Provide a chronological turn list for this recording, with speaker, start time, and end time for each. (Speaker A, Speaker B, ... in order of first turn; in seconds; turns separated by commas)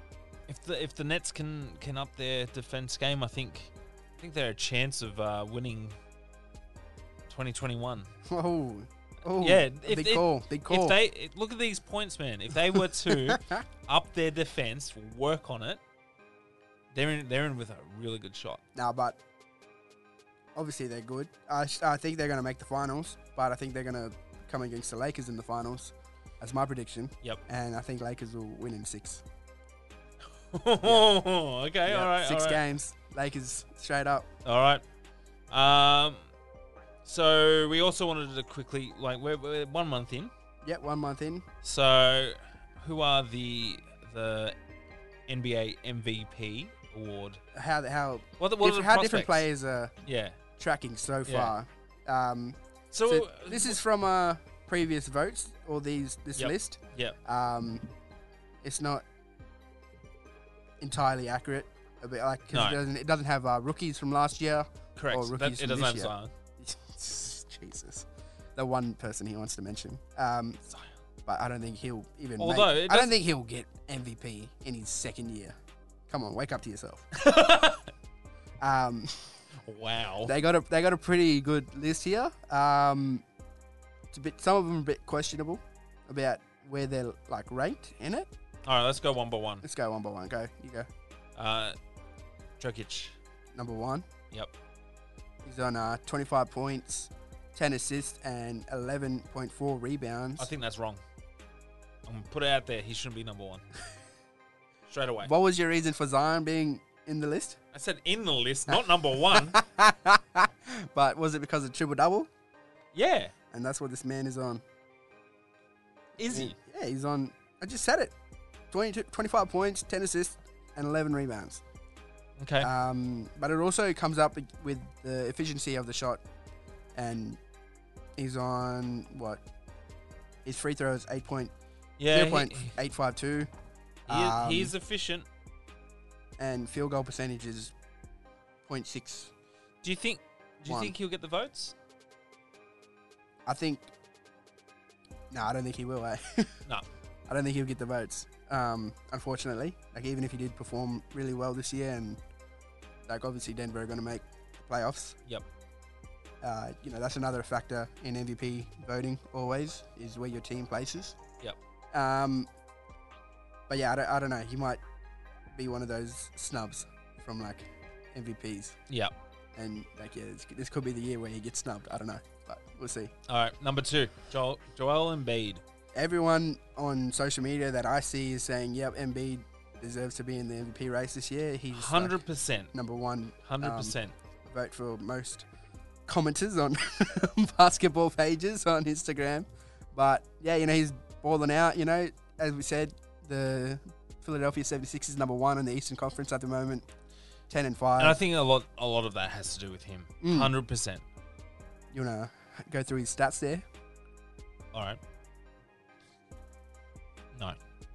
Speaker A: 0.5-6.0, Speaker A: 7.3-8.1, Speaker B: 8.2-11.0, Speaker A: 9.4-15.8, Speaker B: 12.7-13.6, Speaker A: 16.9-18.6, Speaker B: 18.7-19.2, Speaker B: 20.5-29.2, Speaker A: 30.4-32.6, Speaker B: 31.9-34.3, Speaker A: 34.4-34.8, Speaker A: 35.5-36.3, Speaker A: 37.0-40.3, Speaker B: 40.6-41.5, Speaker A: 41.6-44.5, Speaker A: 45.3-47.4, Speaker B: 47.5-49.9, Speaker A: 48.4-49.5, Speaker A: 50.0-50.4, Speaker B: 50.6-57.9, Speaker A: 51.3-51.5, Speaker A: 52.9-53.8, Speaker A: 56.4-57.1, Speaker B: 58.6-59.0, Speaker B: 60.8-70.6, Speaker A: 62.5-62.8, Speaker A: 65.0-66.3, Speaker B: 71.2-75.5, Speaker A: 72.4-73.1, Speaker B: 76.1-77.1, Speaker A: 77.1-77.9, Speaker B: 78.6-79.4, Speaker A: 79.6-80.3, Speaker B: 80.2-83.2, Speaker B: 84.1-88.3, Speaker A: 88.7-89.6, Speaker B: 89.6-90.9, Speaker A: 91.3-91.8, Speaker A: 92.6-93.2, Speaker B: 93.5-94.1, Speaker B: 95.4-100.5, Speaker A: 100.4-101.0, Speaker A: 102.0-103.6, Speaker A: 104.9-105.3, Speaker B: 105.2-107.6, Speaker A: 107.7-109.6, Speaker B: 109.3-112.3, Speaker A: 112.9-113.3, Speaker B: 113.5-114.6, Speaker A: 116.2-116.5, Speaker B: 116.2-118.1, Speaker B: 118.7-121.6, Speaker A: 122.4-122.7, Speaker B: 122.6-126.2, Speaker B: 126.9-127.4, Speaker B: 128.2-129.4, Speaker B: 130.4-131.5, Speaker A: 132.0-132.7, Speaker B: 132.1-133.5, Speaker B: 134.1-134.7, Speaker A: 134.1-135.2, Speaker B: 136.4-137.7, Speaker B: 138.6-139.3, Speaker A: 139.8-141.7, Speaker B: 140.7-140.9, Speaker B: 143.4-143.9, Speaker B: 145.3-146.6, Speaker B: 147.3-152.2, Speaker B: 153.1-155.2, Speaker B: 156.4-161.2, Speaker B: 161.9-162.5, Speaker B: 163.7-164.8, Speaker B: 165.5-168.8, Speaker B: 169.5-173.1, Speaker A: 173.3-175.6, Speaker B: 175.9-182.2, Speaker A: 181.7-182.7, Speaker B: 182.7-185.4, Speaker A: 183.4-184.1, Speaker B: 186.1-196.8, Speaker B: 197.5-198.2, Speaker A: 198.0-201.0, Speaker B: 200.2-200.5, Speaker B: 201.9-203.6, Speaker A: 204.7-205.0